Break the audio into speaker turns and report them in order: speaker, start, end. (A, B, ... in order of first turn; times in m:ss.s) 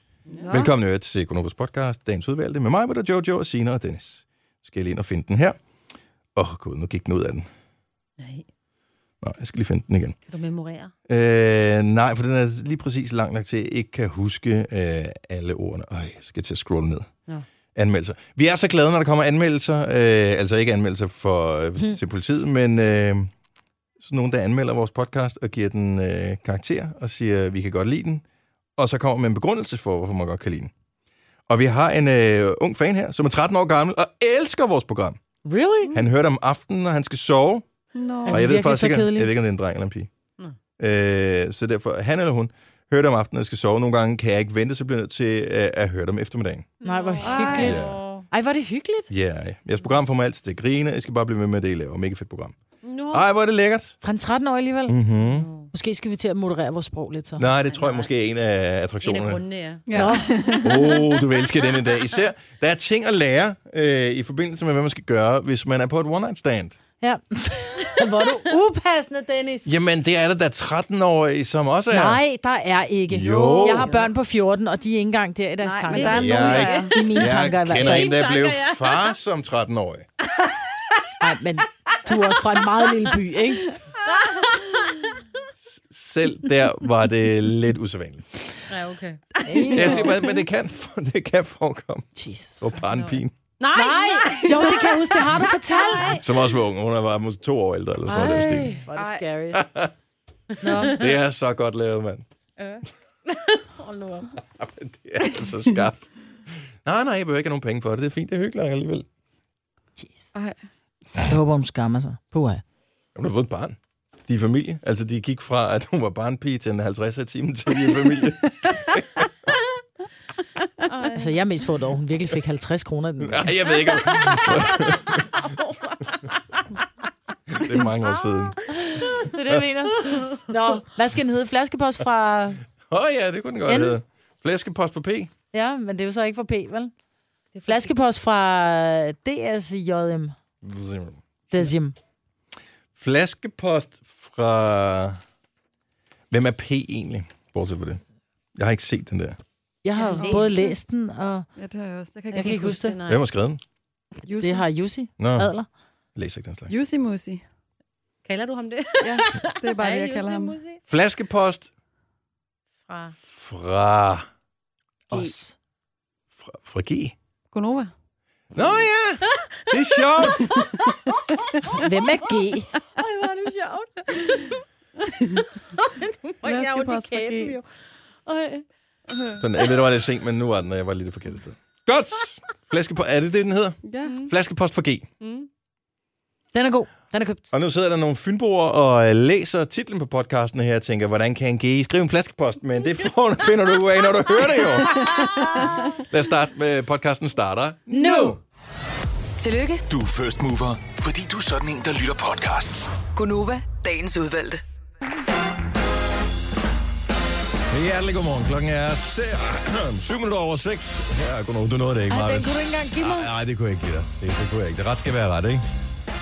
0:00.4-0:00.7 A
0:00.5-0:05.6 B
0:06.4-0:07.5 B
0:08.2-0:08.5 C
0:09.2-0:10.2 B
0:10.3-0:10.9 C
0:11.1-0:17.1 B
0:17.8-0:23.3 B
0:24.0-0:28.2 B
0:28.8-0:30.7 B
0:31.5-0:35.2 B
0:35.4-0:35.9 D
0:35.9-0:37.6 B
0:38.0-0:38.4 A
0:38.3-0:39.3 D
0:38.3-0:40.1 B
0:40.8-0:46.7 B
0:46.8-0:48.3 C
0:46.8-0:49.1 D
0:47.2-0:47.8 A
0:47.6-0:48.0 B
0:49.1-0:52.6 B
0:52.8-0:53.2 C
0:53.1-0:54.0 B
0:54.0-0:55.0 D
0:54.9-0:55.5 B
0:55.4-0:55.7 C
0:55.7-0:57.5 D
0:57.4-0:59.4 B
0:57.7-0:58.1 C
0:59.0-1:00.2 C
0:59.9-1:00.8 A
0:59.9-1:00.7 D
1:00.6-1:06.8 B
1:07.0-1:09.6 D
1:09.6-1:12.2 B
1:11.9-1:18.1 D
1:13.1-1:13.9 B
1:13.3-1:14.0 A
1:15.6-1:17.0 A
1:15.9-1:16.9 C
1:16.0-1:20.1 B
1:17.8-1:19.1 C
1:21.2-1:23.8 D
1:24.0-1:24.8 C
1:25.6-1:28.4 B
1:28.7-1:30.1 C
1:29.4-1:30.3 D
1:29.7-1:33.3 B
1:32.2-1:32.8 D
1:33.6-1:36.3 C
1:33.7-1:36.2 D
1:36.2-1:38.8 B
1:38.1-1:39.6 D
1:39.0-1:39.3 A
1:39.5-1:39.9 B
1:40.6-1:41.0 D
1:40.8-1:42.2 B
1:42.6-1:44.2 C
1:43.9-1:44.2 D
1:44.5-1:46.1 B
1:46.8-1:49.1 B
1:50.0-1:50.3 D
1:51.2-1:52.6 D
1:53.2-1:59.2 B
2:00.9-2:01.4 C
2:01.1-2:03.6 D
2:03.2-2:05.2 B
2:04.1-2:06.2 C
2:07.5-2:08.6 B
2:08.8-2:12.6 D
2:10.0-2:10.8 C
2:12.9-2:15.3 B
2:13.7-2:14.0 D
2:15.5-2:16.9 D
2:17.5-2:17.9 C
2:17.7-2:20.4 D
2:20.6-2:21.2 B
2:21.5-2:22.0 D
2:23.0-2:25.2 B
2:26.3-2:28.0 B
2:28.6-2:29.4 B
2:29.8-2:31.5 D
2:29.9-2:30.8 C
2:30.2-2:30.6 A
2:31.6-2:32.8 A
2:32.3-2:33.0 D
2:32.3-2:33.2 C
2:33.1-2:33.6 B
2:34.3-2:34.7 A
2:34.4-2:35.7 D
2:35.2-2:35.5 B
2:36.2-2:36.7 B
2:36.7-2:37.4 A
2:38.2-2:40.8 C
2:39.0-2:40.6 A
2:40.9-2:41.7 B
2:42.9-2:43.1 C
2:43.3-2:44.3 B
2:45.1-2:45.6 D
2:46.4-2:47.2 B
2:47.5-2:47.9 A
2:48.5-2:50.6 B
2:50.2-2:50.8 C
2:51.8-2:52.7 D
2:53.0-2:54.6 C
2:55.2-2:57.7 C
2:56.4-2:57.6 A
2:58.3-2:58.6 C
2:59.4-3:05.1 B
3:03.8-3:04.2 A
3:05.2-3:05.5 C
3:06.5-3:07.5 D
3:07.5-3:15.2 B
3:16.0-3:18.4 B
3:17.9-3:18.3 C
3:19.4-3:19.8 E
3:19.9-3:22.9 F
3:23.1-3:24.6 E
3:27.7-3:35.7 B
3:32.1-3:33.3 D